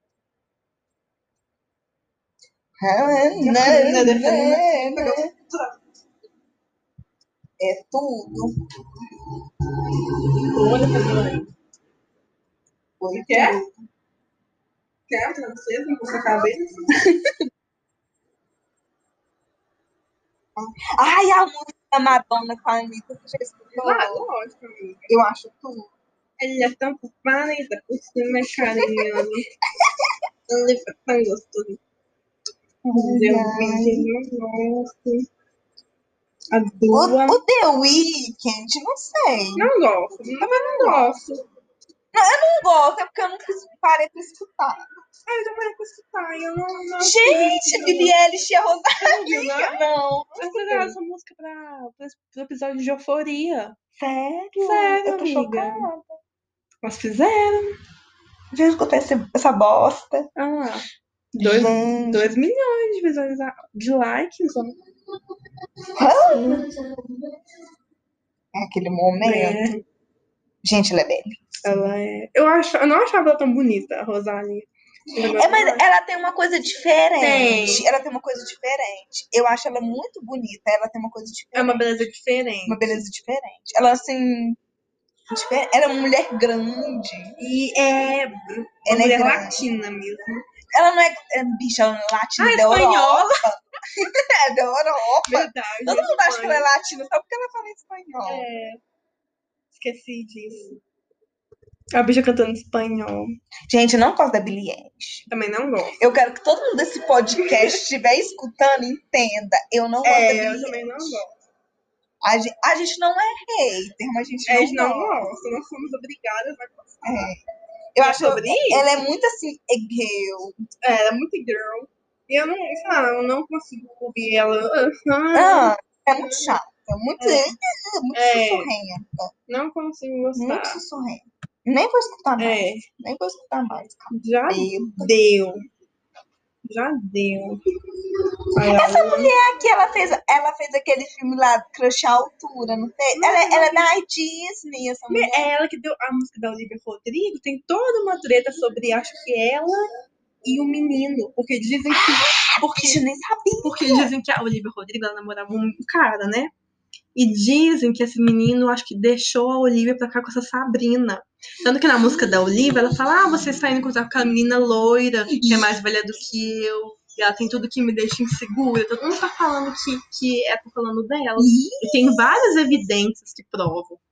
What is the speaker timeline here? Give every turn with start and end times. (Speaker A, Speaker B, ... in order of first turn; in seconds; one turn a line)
Speaker A: 2.8-5.3
Speaker B: 3.4-5.8
Speaker A: 7.6-8.6
Speaker B: 10.5-11.5
Speaker A: 13.0-13.7
Speaker B: 13.2-13.6
Speaker B: 15.1-16.9
Speaker A: 17.0-17.3
Speaker A: 20.9-24.3
Speaker B: 23.8-25.1
Speaker A: 25.1-25.9
Speaker B: 26.4-29.5
Speaker A: 28.8-30.2
Speaker B: 30.5-31.8
Speaker A: 32.9-34.1
Speaker B: 32.9-35.3
Speaker B: 36.5-37.4
Speaker A: 36.9-39.7
Speaker B: 39.6-41.4
Speaker A: 40.4-41.1
Speaker A: 42.1-44.9
Speaker B: 45.3-48.1
Speaker A: 47.0-51.0
Speaker B: 49.0-49.8
Speaker B: 50.4-53.8
Speaker A: 54.0-56.1
Speaker B: 54.6-55.9
Speaker B: 56.8-57.8
Speaker A: 58.5-60.3
Speaker B: 60.4-60.9
Speaker B: 61.4-64.8
Speaker A: 61.4-62.4
Speaker A: 66.0-66.7
Speaker A: 68.5-69.7
Speaker B: 69.2-69.8
Speaker A: 70.6-71.8
Speaker B: 71.6-75.8
Speaker A: 75.1-81.9
Speaker B: 77.2-77.9
Speaker B: 81.5-82.9
Speaker A: 82.7-84.6
Speaker A: 85.3-87.4
Speaker B: 87.4-90.4
Speaker A: 88.9-89.6
Speaker A: 90.7-98.5
Speaker B: 92.4-93.4
Speaker B: 95.2-96.7
Speaker B: 98.2-98.8
Speaker B: 99.7-100.8
Speaker B: 102.0-103.4
Speaker A: 103.7-105.3
Speaker B: 105.3-106.0
Speaker A: 106.0-111.2
Speaker B: 110.0-111.4
Speaker A: 112.2-115.3
Speaker B: 114.5-117.3
Speaker A: 117.0-117.4
Speaker A: 118.0-120.6
Speaker B: 118.0-118.9
Speaker B: 120.8-126.6
Speaker A: 125.3-129.3
Speaker B: 127.2-127.5
Speaker B: 128.1-128.7
Speaker B: 129.5-130.8
Speaker A: 130.4-135.1
Speaker B: 132.4-132.9
Speaker B: 134.1-135.6
Speaker B: 136.6-137.6
Speaker B: 138.6-139.3
Speaker A: 138.7-145.5
Speaker B: 143.2-143.9
Speaker B: 145.1-149.9
Speaker B: 150.4-153.0
Speaker A: 151.9-154.1
Speaker B: 153.6-156.5
Speaker B: 157.2-174.0
Speaker A: 165.3-165.7
Speaker A: 171.4-172.3